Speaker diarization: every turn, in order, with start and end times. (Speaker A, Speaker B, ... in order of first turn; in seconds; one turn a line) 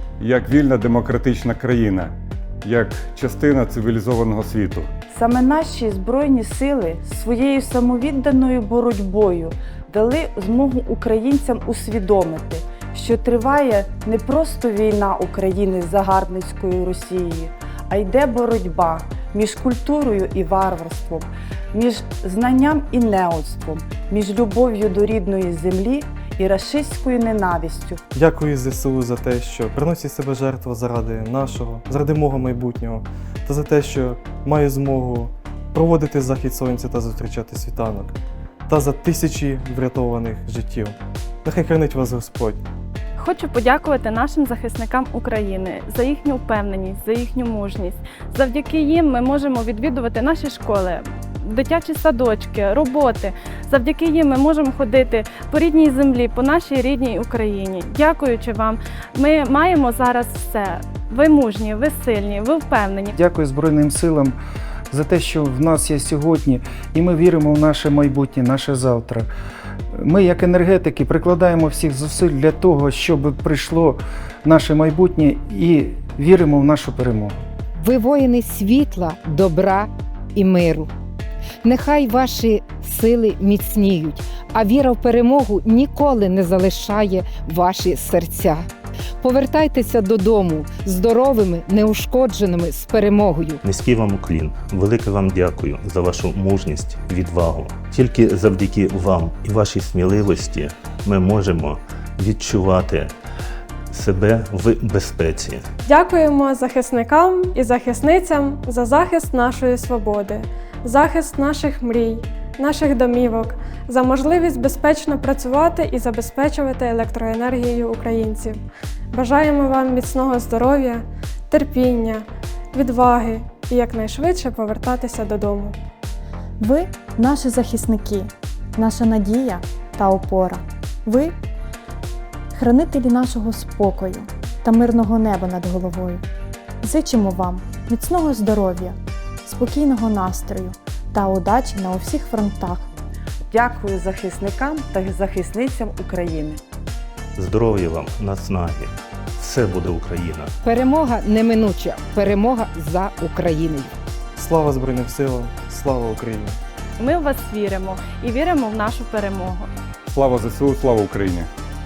Speaker A: 0.2-2.1
Speaker A: 2.6-4.9
Speaker B: 5.1-28.0
Speaker C: 28.1-42.6
Speaker D: 43.2-63.1
Speaker E: 63.1-64.4
Speaker E: 64.9-69.3
Speaker E: 69.9-77.4
Speaker F: 77.8-80.9
Speaker F: 81.6-88.7
Speaker F: 89.2-93.6
Speaker G: 93.6-103.1
Speaker G: 103.9-105.6
Speaker H: 105.8-118.6
Speaker H: 119.1-125.7
Speaker I: 126.6-131.3
Speaker I: 132.5-136.2
Speaker I: 136.8-142.9
Speaker B: 143.5-146.6
Speaker G: 147.3-150.5
Speaker F: 150.6-153.9
Speaker C: 154.3-156.6
Speaker D: 157.0-159.7
Speaker A: 160.1-161.5